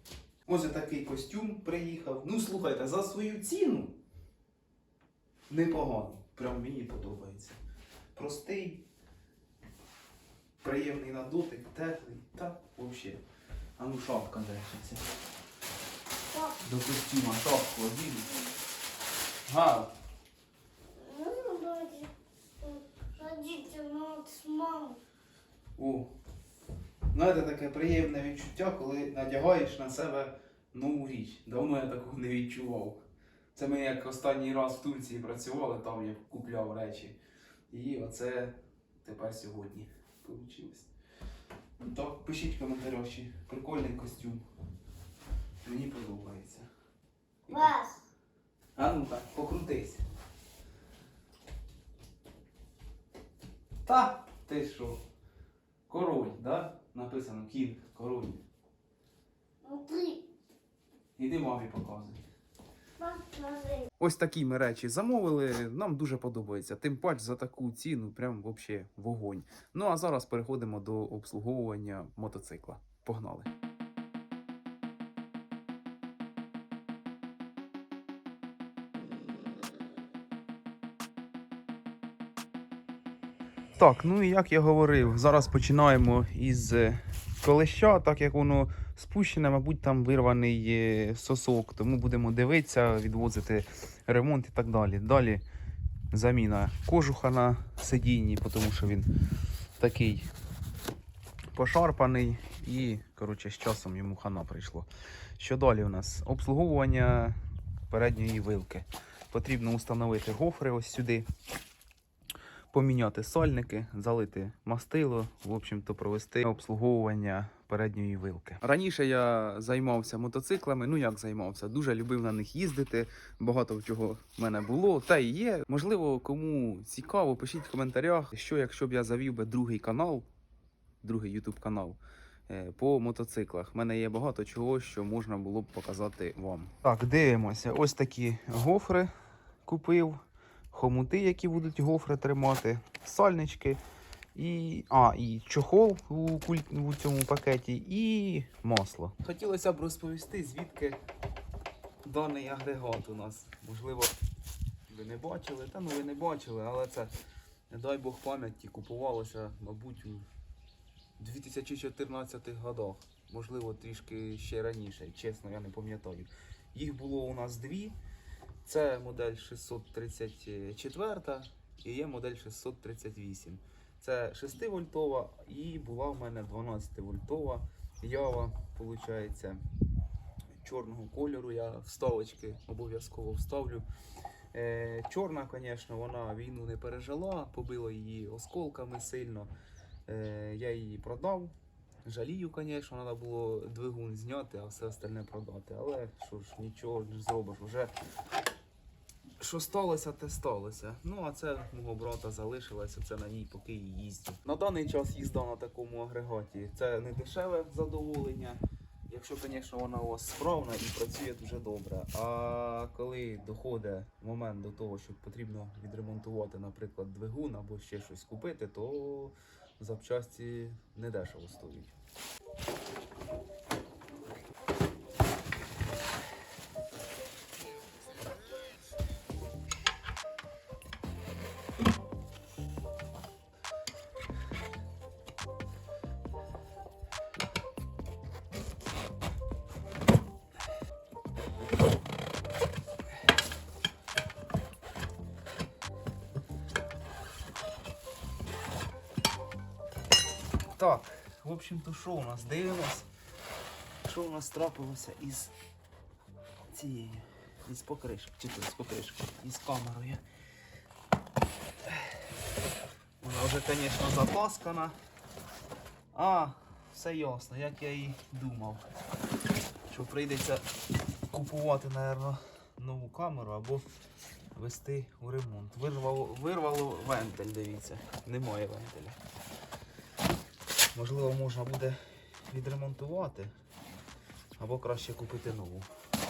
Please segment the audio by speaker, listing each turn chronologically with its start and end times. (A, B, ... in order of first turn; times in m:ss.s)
0:00.4-0:04.0 A
0:05.5-0:07.6 A
0:08.1-0:08.8 A
0:10.6-0:13.2 A
0:13.8-0:15.0 A
0:16.3-0:16.6 B
0:16.6-0:18.3 A
0:19.5-0:19.9 A
0:20.9-0:25.0 B
0:25.8-0:26.1 A
0:27.1-0:33.0 A
0:33.5-0:37.2 A
0:37.7-0:40.9 A
0:41.8-0:44.4 A
0:45.6-0:46.7 A
0:47.4-0:47.7 A
0:47.5-0:48.0 B
0:48.8-0:50.0 A
0:53.8-0:55.0 A
0:55.9-0:58.4 A
0:59.6-1:00.2 B
1:01.2-1:02.2 A
1:03.0-1:03.9 B
1:04.0-1:13.5 A
1:23.8-1:35.4 A
1:36.1-1:39.1 A
1:39.8-1:40.3 A
1:41.5-1:51.3 A
1:52.7-2:10.3 A
2:11.0-2:19.1 A
2:19.6-2:20.2 A
2:20.7-2:23.8 A
2:24.3-2:31.0 A
2:32.0-2:34.1 A
2:34.9-2:37.1 A
2:37.7-2:40.3 A
2:41.2-2:48.0 A
2:48.6-2:59.6 A
3:00.6-3:03.8 A
3:04.5-3:09.5 A
3:10.1-3:11.5 A
3:12.0-3:17.9 A
3:19.4-3:41.9 A
4:10.7-4:13.1 A
4:14.0-4:15.5 A
4:16.7-4:20.2 A
4:23.2-4:24.9 A
4:26.1-4:28.8 A
4:29.9-4:30.6 A
4:31.3-4:33.9 A
4:34.5-4:39.2 A
4:40.9-4:43.5 A
4:44.6-4:45.9 A